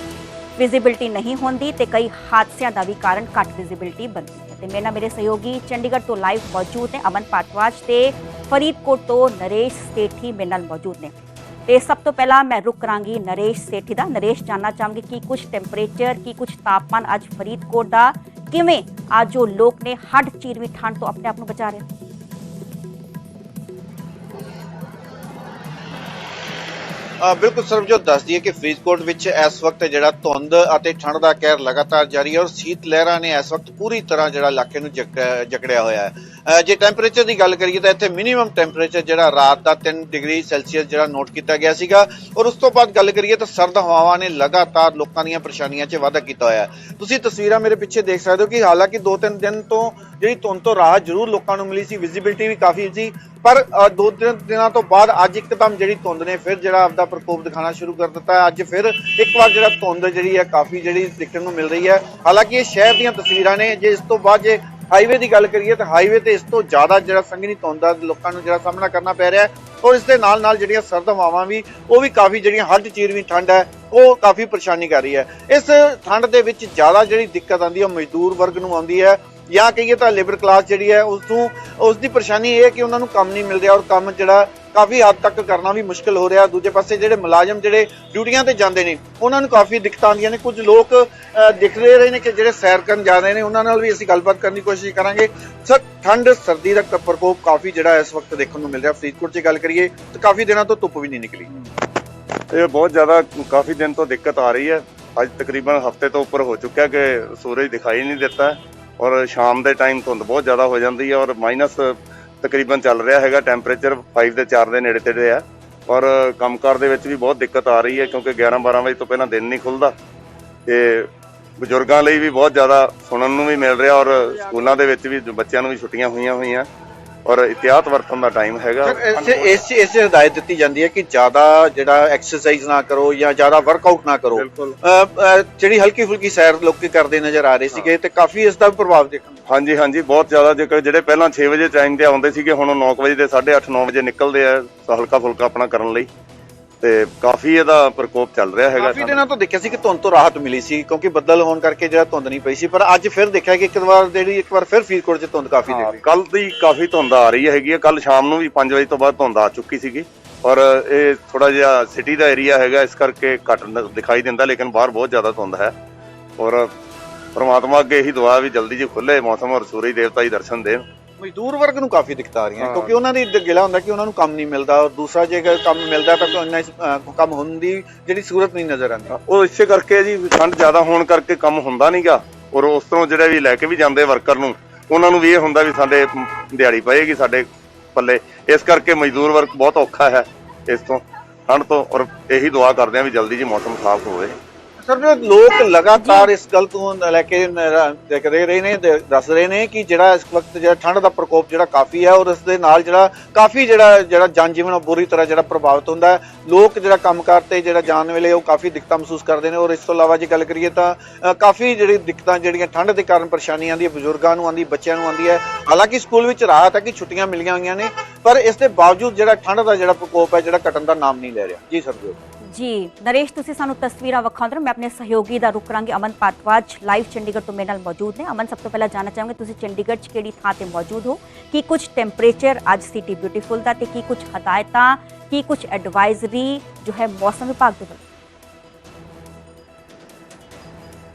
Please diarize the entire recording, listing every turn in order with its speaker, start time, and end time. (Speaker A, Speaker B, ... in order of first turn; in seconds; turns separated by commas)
Speaker A: 0.6-11.1, Speaker A: 11.7-21.8, Speaker B: 27.2-101.5, Speaker C: 102.5-119.9, Speaker C: 120.7-126.7, Speaker B: 124.2-124.8, Speaker C: 127.2-129.6, Speaker B: 128.8-139.4, Speaker C: 134.3-134.8, Speaker C: 139.5-146.1, Speaker C: 146.8-149.2, Speaker B: 148.8-156.0, Speaker C: 155.7-165.7, Speaker C: 166.4-166.7, Speaker C: 167.3-170.8, Speaker B: 171.2-179.1, Speaker C: 172.6-172.9, Speaker C: 179.1-194.4, Speaker B: 194.8-222.2, Speaker A: 196.0-196.3, Speaker A: 222.5-238.0